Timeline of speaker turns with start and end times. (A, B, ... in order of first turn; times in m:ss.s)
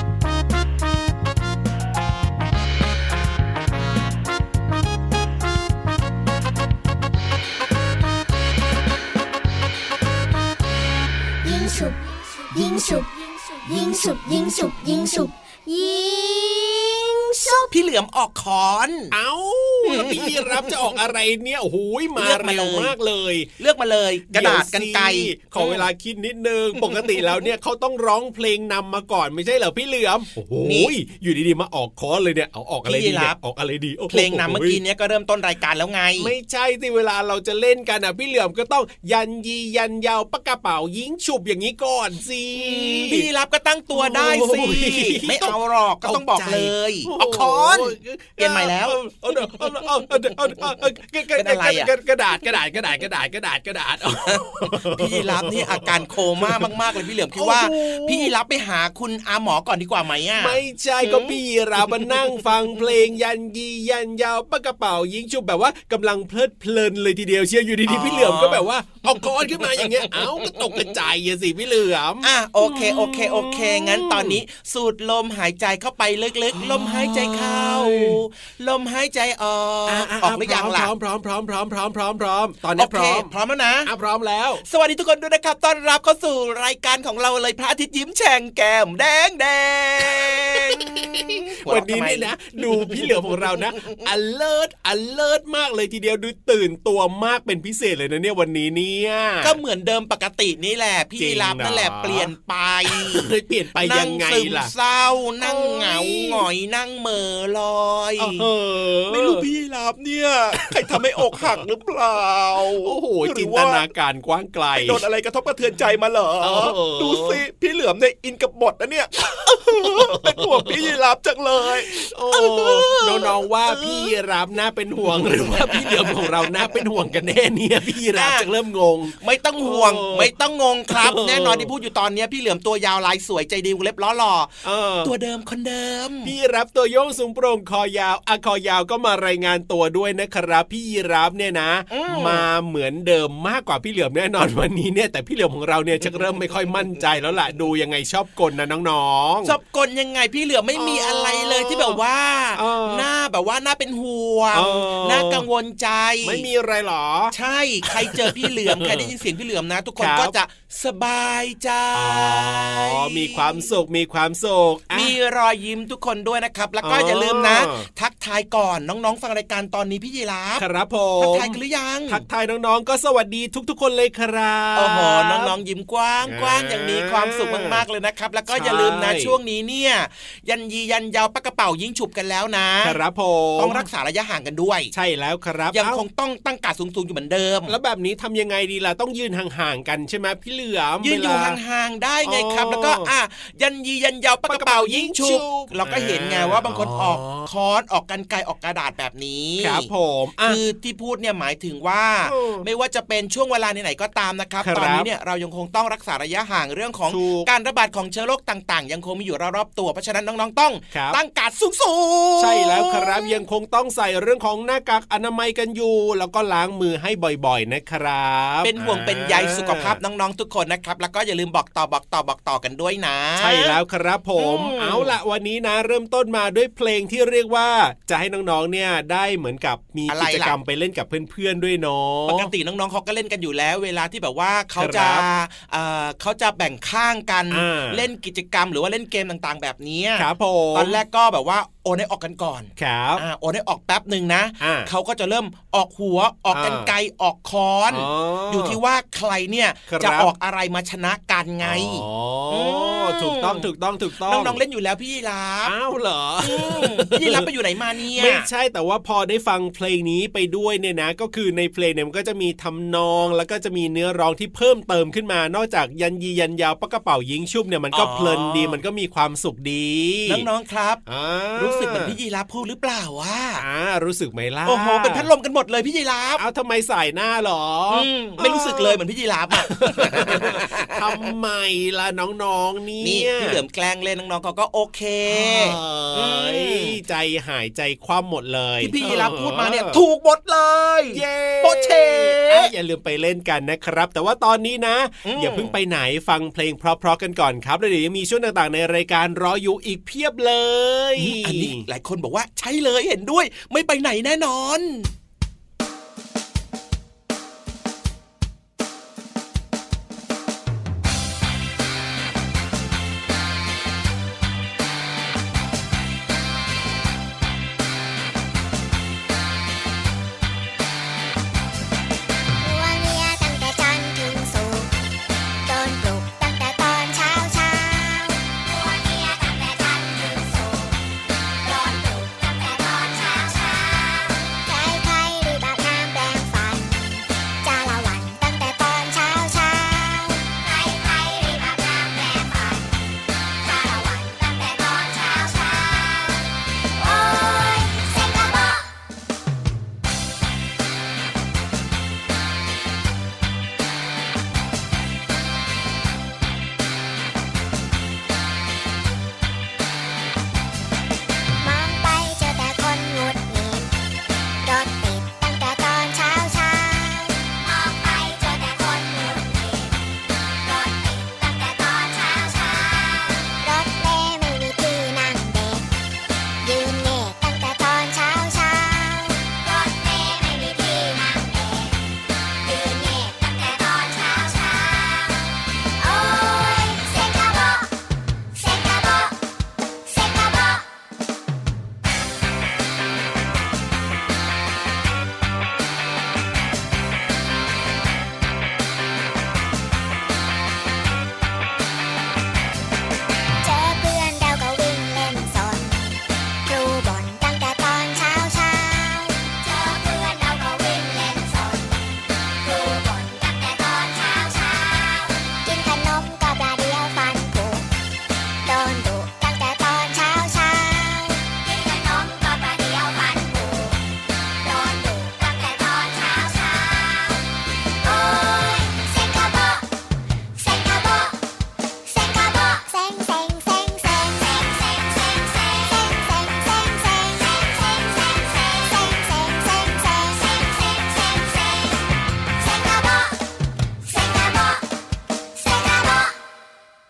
0:11.4-0:17.7 A
0:17.7-0:19.2 B
0:19.1-0:23.5 C
0:19.9-0:20.6 B
0:22.2-0:22.9 B
0:23.6-0:25.9 B
0:24.3-0:34.8 C
0:26.8-0:27.4 B
0:30.6-0:30.9 B
0:32.8-0:33.4 B
0:34.1-0:36.3 B
0:36.2-0:43.3 C
0:42.6-0:49.0 B
0:43.9-0:58.3 C
0:51.4-0:51.9 B
0:54.3-1:02.4 B
1:00.4-1:14.4 C
1:07.9-1:10.2 B
1:12.2-1:20.9 B
1:16.5-1:18.2 C
1:19.9-1:23.3 C
1:22.8-1:23.9 B
1:23.9-1:24.6 C
1:24.7-1:33.4 B
1:30.2-1:39.6 C
1:39.4-1:43.3 B
1:41.2-1:42.3 C
1:42.9-1:44.7 C
1:43.8-1:48.5 B
1:45.4-1:46.4 C
1:48.2-1:49.5 C
1:49.1-1:53.9 B
1:50.6-1:51.6 C
1:52.8-1:55.0 C
1:54.8-2:04.1 B
1:56.4-1:57.4 C
1:59.6-2:01.0 C
2:01.6-2:10.3 C
2:05.1-2:06.8 B
2:08.1-2:08.5 B
2:09.2-2:16.3 B
2:10.9-2:11.7 C
2:14.6-2:15.1 C
2:16.2-2:29.6 C
2:21.9-2:22.5 B
2:26.0-2:26.3 B
2:29.4-2:36.5 B
2:30.8-2:32.0 C
2:32.6-2:33.1 C
2:34.5-2:35.4 C
2:36.2-2:37.3 C
2:37.3-2:43.7 B
2:37.9-2:39.1 C
2:40.0-2:40.3 C
2:42.0-2:45.1 C
2:44.9-2:50.7 B
2:46.8-2:47.9 C
2:50.6-2:51.6 C
2:51.2-2:52.2 B
2:52.1-2:55.5 C
2:54.8-3:03.0 B
2:56.2-2:57.8 C
2:58.5-2:59.3 C
3:02.8-3:03.9 C
3:03.6-3:04.9 B
3:04.9-3:06.0 C
3:05.7-3:07.8 B
3:07.7-3:11.6 C
3:11.0-3:19.9 B
3:12.2-3:13.1 C
3:14.5-3:17.5 C
3:19.6-3:20.6 C
3:20.4-3:33.4 B
3:22.2-3:22.7 C
3:24.6-3:25.1 C
3:27.1-3:27.5 C
3:32.4-3:40.0 C
3:38.6-3:43.8 B
3:43.4-3:52.5 C
3:44.4-3:45.2 B
3:50.1-3:50.6 B
3:52.3-4:13.7 B
3:54.8-3:55.3 C
3:57.5-3:58.0 C
4:00.2-4:01.0 C
4:02.8-4:03.2 C
4:04.6-4:04.9 C
4:06.5-4:06.9 C
4:07.9-4:08.8 C
4:09.9-4:10.3 C
4:11.6-4:14.6 C
4:14.2-4:15.7 B
4:15.6-4:17.5 C
4:16.4-4:18.5 B
4:18.1-4:30.5 C
4:27.9-4:28.8 B
4:30.3-4:31.0 B
4:31.1-4:32.1 C
4:31.6-4:33.6 B
4:33.6-4:35.3 C
4:34.6-4:36.4 B
4:36.4-4:39.0 C
4:37.9-4:41.3 B
4:39.5-4:43.6 C
4:43.0-4:47.0 B
4:45.3-4:50.0 C
4:48.8-4:52.7 B
4:51.1-5:01.8 C
4:55.2-4:55.7 B
5:01.2-5:05.1 B
5:22.6-5:24.9 D
5:25.6-5:31.0 D
5:31.6-5:42.9 D
5:43.6-5:46.4 D
5:47.0-5:48.9 D
6:01.6-6:03.9 D
6:04.6-6:10.0 D
6:10.6-6:15.9 D
6:16.6-6:22.0 D
6:22.6-6:25.4 D
6:26.0-6:27.9 D
6:28.6-6:29.4 D
6:30.1-6:30.9 D
6:43.6-6:52.1 D
6:52.6-6:57.9 D
6:58.6-7:04.0 D
7:04.6-7:07.4 D
7:08.0-7:09.9 D
7:10.6-7:11.4 D
7:12.0-7:22.0 D
7:22.6-7:23.4 D
7:24.0-7:24.8 D
7:25.6-7:26.4 D